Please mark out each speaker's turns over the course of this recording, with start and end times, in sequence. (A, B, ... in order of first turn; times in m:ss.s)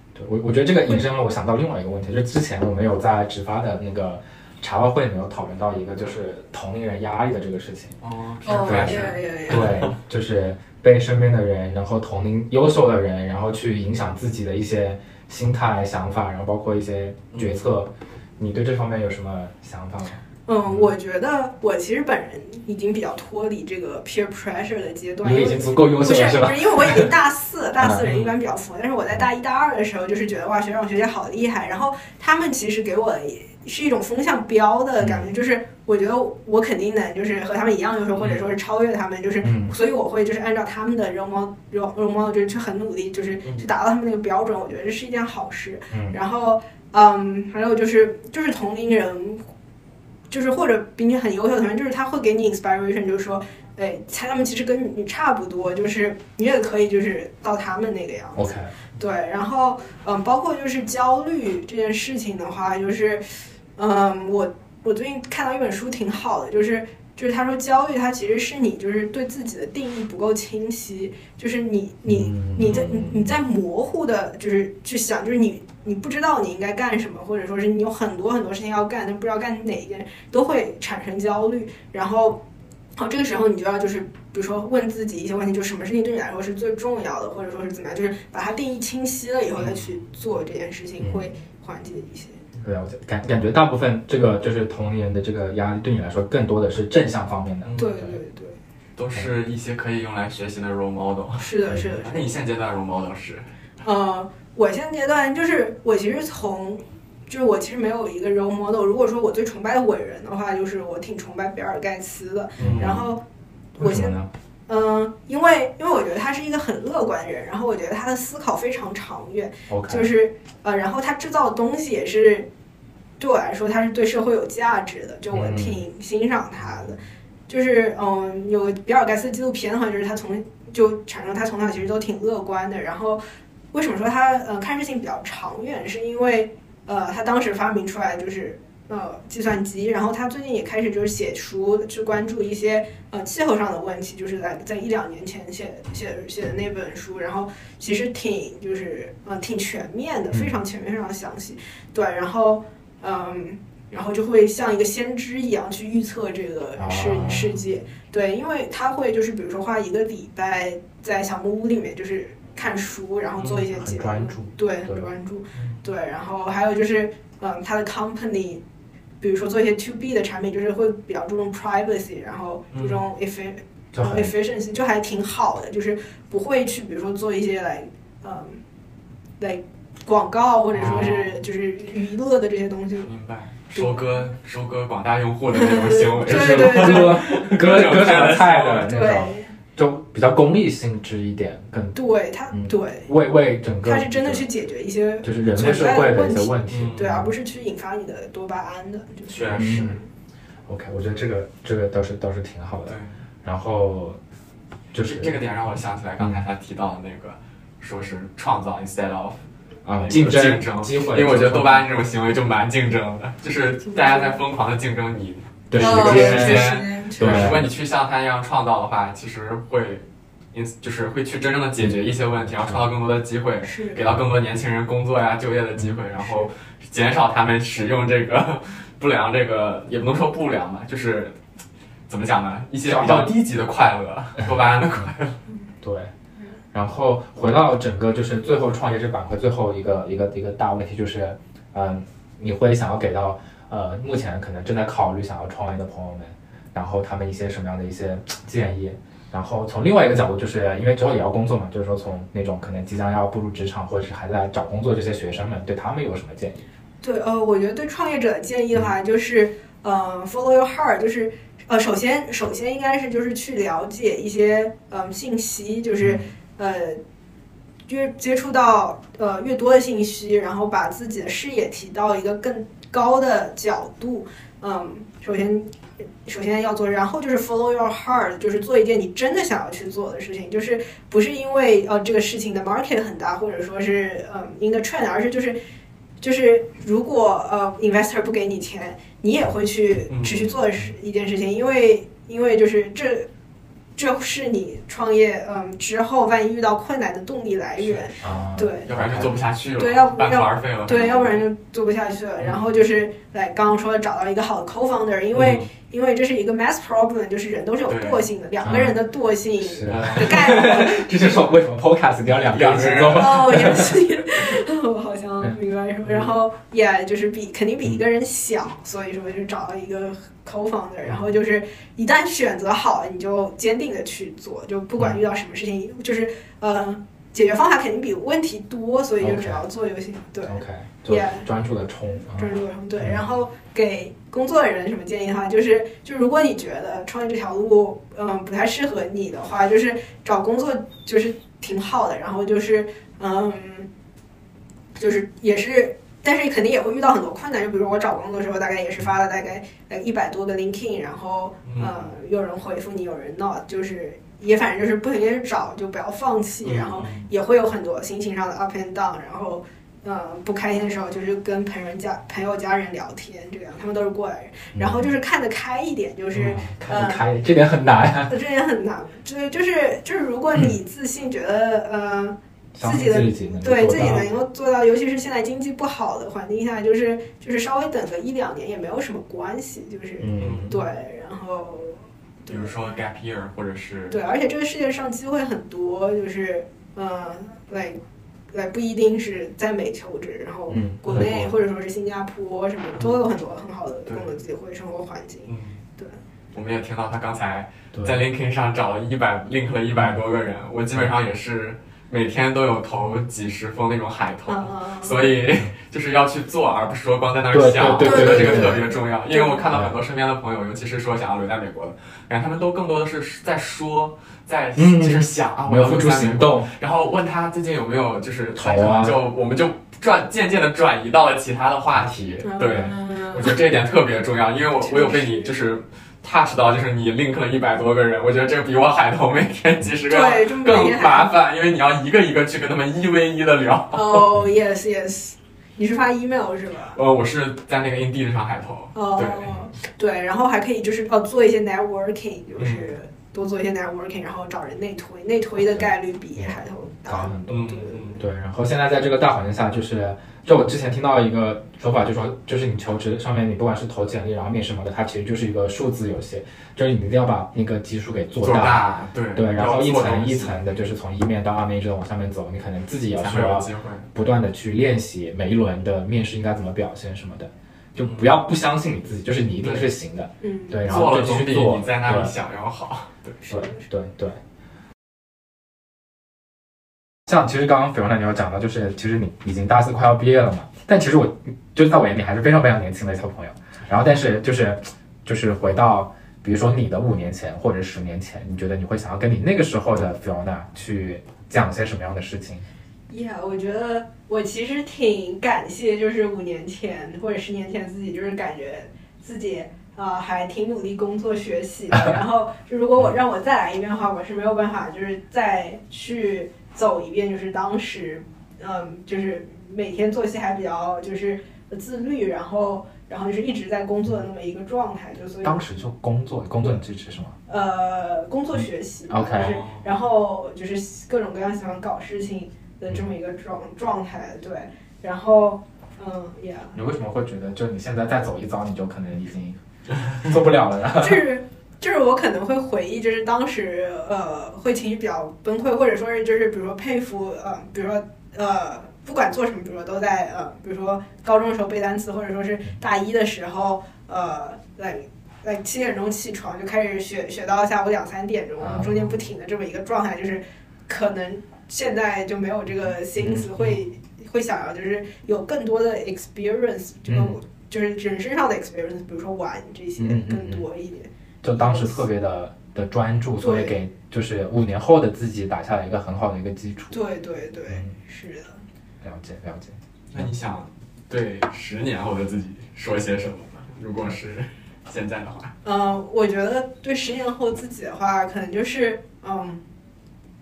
0:00.1-0:07.9 A
0:08.0-0:09.9 B
0:08.4-0:09.7 C
0:08.6-0:20.8 A
0:17.3-0:17.6 B
0:20.5-0:49.4 C
0:25.2-0:27.1 A
0:27.8-0:28.1 A
0:28.0-0:28.3 B
0:35.0-0:35.3 A
0:38.2-0:38.5 B
0:39.4-0:39.8 A
0:45.9-0:46.2 A
0:50.3-1:22.4 C
0:58.4-0:58.7 A
1:12.0-1:13.4 A
1:23.0-1:32.4 C
1:29.6-1:30.0 B
1:31.0-1:31.3 A
1:32.6-1:38.2 A
1:37.6-1:38.0 B
1:37.8-1:38.6 C
1:39.0-1:43.5 B
1:41.4-1:42.3 C
1:43.8-1:53.2 C
1:52.6-1:53.0 B
1:52.6-1:53.1 A
1:53.8-1:54.2 C
1:53.8-1:54.3 A
1:54.7-2:02.5 C
1:59.7-2:00.1 A
2:03.2-2:13.2 C
2:05.3-2:05.8 A
2:13.7-2:48.6 C
2:30.3-2:30.6 A
2:36.8-2:37.6 A
2:43.4-2:43.6 B
2:43.5-2:45.1 A
2:45.5-2:45.8 B
2:49.2-2:58.6 C
2:52.7-2:53.0 B
2:53.9-2:54.3 A
2:59.4-3:03.1 C
3:00.7-3:01.4 B
3:00.8-3:01.1 A
3:03.0-3:08.9 B
3:03.7-3:04.2 C
3:05.5-3:07.3 C
3:06.2-3:12.0 A
3:08.8-3:09.5 C
3:11.9-3:13.1 C
3:12.5-3:14.5 A
3:13.8-3:20.0 C
3:15.2-3:17.3 A
3:16.7-3:17.2 B
3:19.3-3:19.9 B
3:19.5-3:20.0 A
3:20.7-3:24.2 A
3:22.8-3:23.2 B
3:24.9-3:25.4 A
3:25.0-3:29.4 B
3:29.8-3:31.9 A
3:30.0-3:51.4 B
3:33.9-3:34.4 C
3:35.7-3:37.7 A
3:35.7-3:37.6 C
3:43.6-3:44.0 C
3:52.1-3:55.4 B
3:52.8-3:53.3 A
3:55.8-3:56.1 A
3:56.7-4:16.6 A
4:17.0-4:27.0 C
4:26.0-4:26.3 A
4:27.9-4:35.7 C
4:36.2-4:45.6 C
4:46.2-4:53.3 C
4:50.1-4:50.6 B
4:54.0-4:58.9 C
4:57.8-4:58.2 B
4:58.2-4:59.3 A
4:58.8-5:01.4 B
4:59.8-5:11.1 C
5:05.3-5:05.6 B
5:07.9-5:08.2 B
5:08.6-5:09.0 A
5:09.6-5:14.0 A
5:09.8-5:10.5 B
5:12.4-5:13.7 B
5:13.1-5:31.5 C
5:16.0-5:16.3 B
5:29.2-5:29.6 A
5:30.4-5:33.2 A
5:32.3-5:43.9 C
5:45.0-6:07.2 C
5:51.6-5:52.1 B
5:56.6-5:57.3 B
6:04.7-6:05.1 A
6:06.3-6:08.4 A
6:08.3-6:22.8 C
6:12.8-6:14.4 A
6:20.2-6:20.8 A
6:20.4-6:20.8 B
6:22.5-6:24.2 B
6:24.1-6:28.0 C
6:28.5-6:36.2 C
6:30.7-6:31.5 A
6:34.1-6:34.4 B
6:35.4-6:35.8 B
6:36.5-7:14.2 B
6:44.5-6:45.3 C
6:47.5-6:48.8 A
6:48.0-6:49.6 C
6:54.8-6:56.7 A
6:58.5-6:59.2 A
7:02.4-7:03.6 C
7:04.8-7:05.5 C
7:10.1-7:11.4 C
7:13.9-7:17.0 C
7:16.9-7:19.5 B
7:18.9-7:28.1 C
7:22.6-7:22.9 B
7:25.8-7:52.3 A
7:27.5-7:28.2 B
7:38.4-7:40.6 B
7:43.1-7:44.1 B
7:48.0-7:48.3 B
7:49.6-7:49.9 B
7:50.4-7:50.9 C
7:50.8-7:53.5 B
7:53.4-7:53.8 C
7:53.5-7:54.4 A
7:57.3-8:12.6 A
8:13.1-8:35.6 C
8:35.4-8:37.4 A
8:37.5-8:46.8 C
8:38.6-8:39.6 A
8:39.4-8:39.9 B
8:46.7-8:49.6 A
8:50.1-8:51.2 A
8:51.0-9:22.0 C
9:08.6-9:09.1 A
9:13.2-9:13.7 A
9:17.1-9:17.4 A
9:20.0-9:20.7 A
9:21.4-9:27.0 A
9:23.4-9:23.8 C
9:26.9-9:28.6 C
9:27.7-9:27.9 A
9:29.0-9:30.3 A
9:30.1-9:35.5 B
9:35.6-9:39.6 C